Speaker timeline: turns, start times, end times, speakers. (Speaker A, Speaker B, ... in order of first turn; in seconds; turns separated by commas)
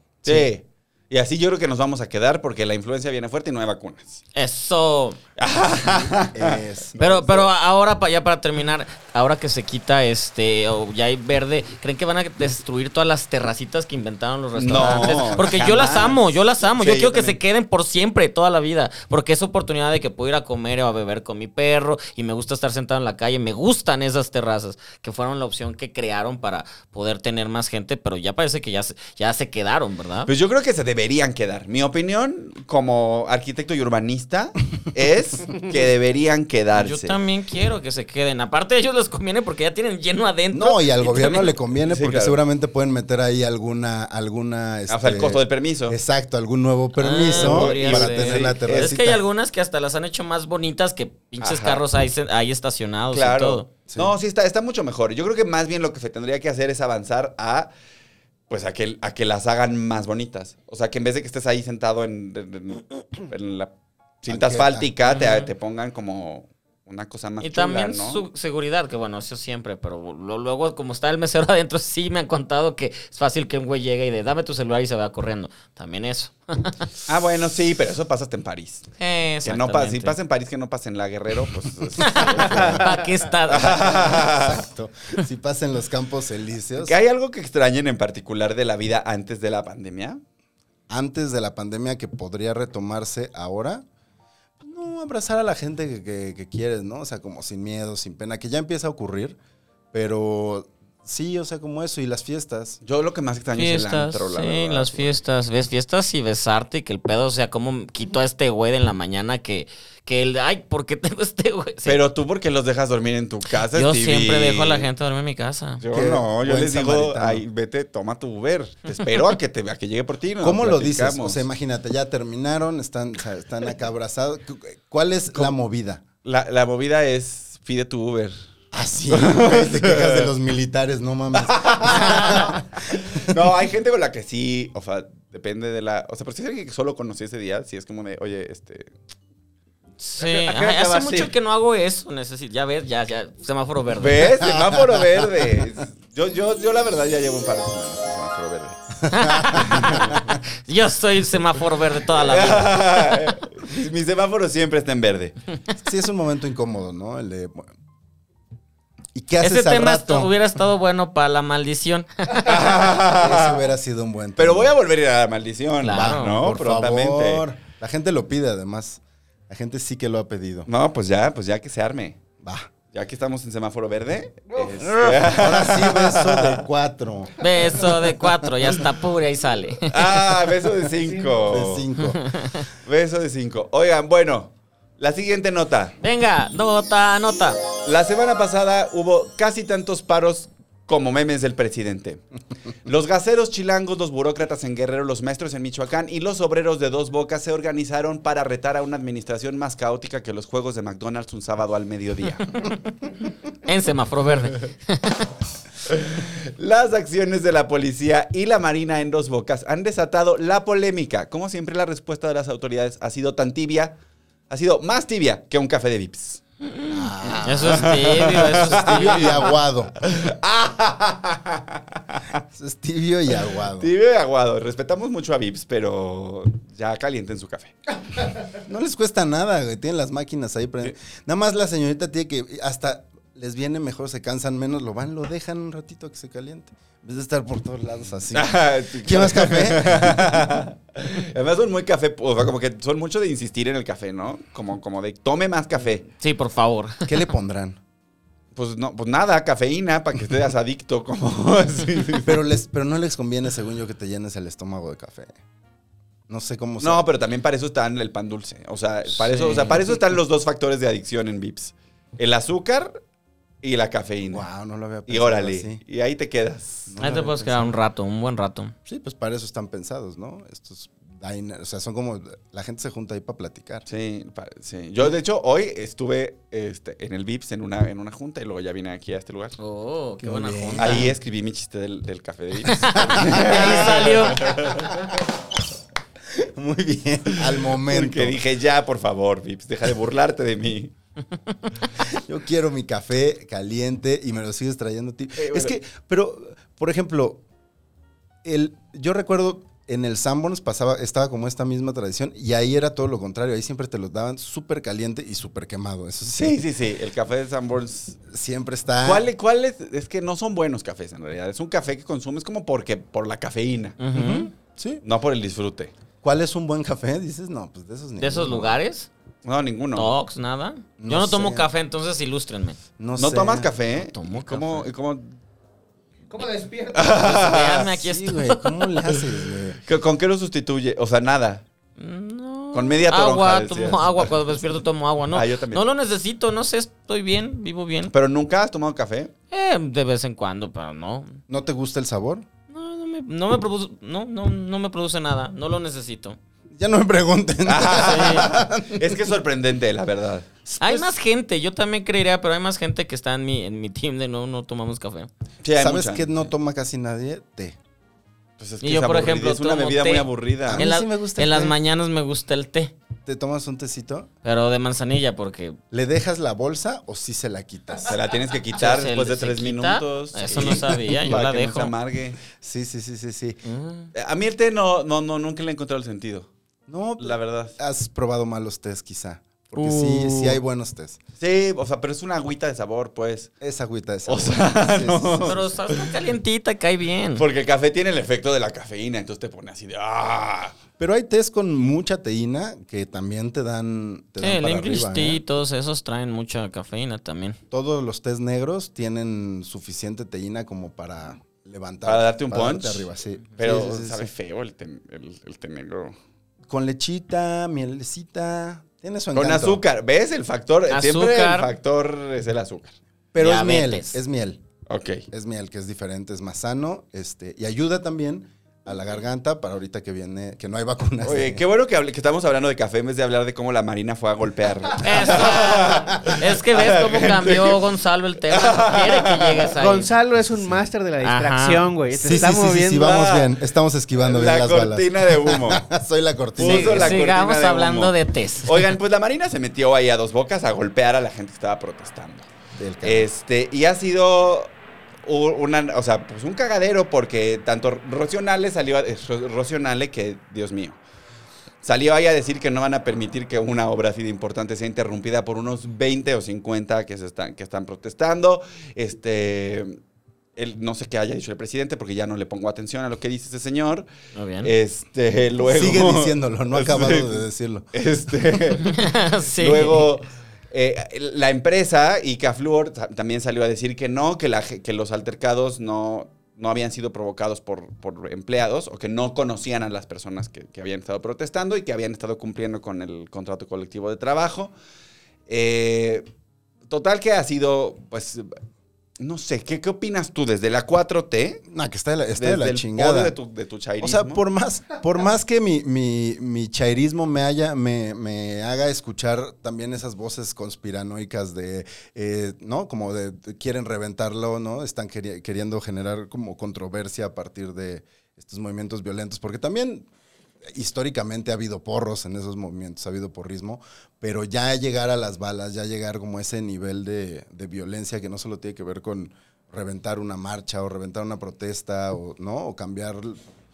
Speaker A: 0.2-4.2, Speaker B: 4.3-5.2, Speaker A: 5.4-7.2, Speaker C: 5.9-7.3, Speaker B: 7.0-30.3, Speaker A: 14.6-17.4, Speaker A: 30.3-37.2, Speaker B: 36.8-41.5, Speaker C: 40.5-49.2, Speaker A: 41.8-42.4, Speaker A: 44.9-46.0, Speaker B: 47.0-53.7, Speaker A: 47.3-48.9, Speaker A: 51.4-51.8, Speaker A: 53.1-57.7, Speaker C: 53.9-54.1, Speaker A: 58.5-63.7, Speaker A: 64.2-68.2, Speaker C: 64.3-64.9, Speaker B: 65.0-65.5, Speaker B: 67.4-76.8, Speaker A: 77.1-78.9, Speaker B: 79.0-80.2, Speaker A: 79.4-82.8, Speaker B: 82.0-84.2, Speaker C: 82.3-82.8, Speaker D: 82.6-83.0, Speaker A: 83.5-84.6, Speaker C: 83.6-87.0, Speaker A: 86.8-90.2, Speaker C: 90.9-93.8, Speaker C: 94.6-99.4, Speaker C: 99.9-102.8, Speaker A: 102.8-105.2, Speaker B: 103.5-112.0, Speaker A: 111.8-114.9, Speaker B: 113.7-115.8, Speaker A: 115.8-121.4, Speaker C: 115.9-117.4, Speaker C: 120.4-126.0, Speaker A: 126.2-128.3, Speaker C: 128.7-133.4, Speaker A: 129.1-130.3, Speaker A: 131.3-138.9, Speaker B: 131.9-132.4, Speaker B: 140.0-144.4, Speaker D: 140.2-141.3, Speaker A: 144.0-148.8, Speaker C: 144.4-145.5, Speaker C: 149.0-150.2, Speaker B: 149.1-153.2, Speaker A: 149.6-150.2, Speaker A: 152.1-155.3, Speaker C: 155.7-157.7, Speaker C: 159.1-160.3, Speaker B: 159.4-162.4, Speaker A: 162.3-163.6, Speaker C: 163.0-164.7, Speaker A: 164.4-167.4, Speaker B: 165.8-166.4, Speaker C: 165.8-170.7, Speaker A: 170.7-172.2, Speaker C: 172.4-172.7, Speaker A: 172.9-176.6, Speaker C: 174.8-177.3, Speaker B: 177.4-180.1, Speaker A: 179.9-181.9, Speaker C: 181.5-182.2, Speaker B: 182.0-182.6, Speaker A: 182.8-185.9, Speaker B: 186.0-187.6, Speaker A: 187.8-192.2, Speaker A: 192.8-202.7, Speaker B: 203.6-205.2, Speaker A: 205.9-214.0, Speaker A: 214.5-216.4, Speaker B: 216.6-219.5, Speaker C: 216.9-219.9, Speaker A: 217.3-222.4, Speaker C: 222.5-223.9, Speaker A: 223.8-227.7, Speaker C: 228.5-240.4, Speaker A: 238.3-246.1, Speaker B: 246.2-247.1, Speaker C: 247.0-247.8, Speaker A: 248.5-252.4, Speaker C: 252.2-255.4, Speaker C: 256.3-257.1, Speaker A: 256.8-263.0, Speaker B: 259.2-259.8, Speaker A: 263.6-264.4, Speaker C: 264.3-265.8, Speaker A: 265.1-266.9, Speaker C: 266.9-267.7, Speaker B: 267.0-268.7, Speaker C: 268.9-273.9, Speaker A: 273.9-279.6, Speaker B: 279.6-281.1, Speaker C: 280.2-281.1, Speaker A: 280.8-285.1, Speaker B: 282.7-284.5, Speaker C: 283.0-285.1, Speaker C: 286.3-288.4, Speaker A: 287.4-290.9, Speaker C: 292.0-297.4, Speaker A: 295.4-295.7, Speaker C: 298.4-306.6, Speaker A: 306.4-308.2, Speaker C: 308.3-309.2, Speaker A: 309.0-314.0, Speaker B: 314.0-314.5, Speaker C: 314.1-315.0, Speaker A: 315.0-315.9, Speaker C: 316.2-318.8, Speaker B: 318.2-319.1, Speaker A: 319.4-320.1, Speaker B: 319.9-322.8, Speaker C: 321.0-321.7, Speaker C: 323.0-323.7, Speaker A: 323.2-325.4, Speaker B: 323.9-324.9, Speaker D: 326.3-327.3, Speaker A: 326.9-327.9, Speaker B: 327.2-328.9, Speaker C: 327.7-329.8, Speaker A: 329.9-331.6, Speaker B: 332.0-338.1, Speaker A: 332.7-334.6, Speaker A: 335.3-335.8, Speaker A: 338.1-339.3, Speaker B: 339.5-341.4, Speaker C: 341.5-342.4, Speaker B: 342.7-346.4, Speaker C: 346.7-349.2, Speaker A: 347.6-350.5, Speaker B: 348.0-348.5, Speaker C: 350.6-351.1, Speaker B: 350.8-355.3, Speaker A: 355.6-356.4, Speaker C: 355.7-357.8, Speaker A: 358.6-360.8, Speaker B: 358.8-362.9, Speaker C: 360.6-361.8, Speaker C: 363.2-364.3, Speaker B: 364.4-365.8, Speaker C: 365.9-368.2, Speaker A: 368.0-372.4, Speaker B: 368.8-371.9, Speaker C: 372.5-373.6, Speaker B: 373.6-374.1, Speaker A: 374.1-376.5, Speaker C: 376.9-381.2, Speaker A: 377.2-377.8, Speaker B: 379.8-380.6, Speaker A: 381.4-383.5, Speaker C: 383.6-385.7, Speaker A: 384.3-386.1, Speaker B: 385.4-387.4, Speaker A: 387.4-390.8, Speaker C: 391.0-395.4, Speaker B: 394.4-397.6, Speaker C: 397.7-404.3, Speaker A: 402.0-403.1, Speaker A: 403.6-406.1, Speaker C: 406.7-409.8, Speaker A: 409.3-412.9, Speaker B: 410.9-411.7, Speaker C: 413.3-414.6, Speaker B: 413.4-414.2, Speaker A: 414.9-415.2, Speaker C: 415.3-421.6, Speaker A: 421.2-427.8, Speaker B: 425.0-430.1, Speaker A: 428.5-429.7, Speaker D: 429.8-433.1, Speaker C: 430.5-430.8, Speaker B: 431.2-431.9, Speaker C: 432.1-437.2, Speaker A: 432.9-433.5, Speaker A: 434.2-435.9, Speaker A: 436.6-442.5, Speaker B: 436.6-438.9, Speaker C: 442.8-443.3, Speaker A: 443.0-444.7, Speaker A: 445.2-451.0, Speaker A: 451.8-460.0, Speaker A: 460.6-464.1, Speaker B: 464.3-464.7, Speaker A: 464.6-467.4, Speaker C: 465.6-467.9, Speaker A: 467.9-469.0, Speaker B: 468.8-470.1, Speaker A: 469.6-484.7, Speaker A: 485.5-486.3, Speaker A: 486.9-488.5, Speaker A: 489.2-491.6, Speaker C: 491.7-493.3, Speaker A: 492.4-494.4, Speaker C: 494.0-510.1, Speaker C: 510.6-523.4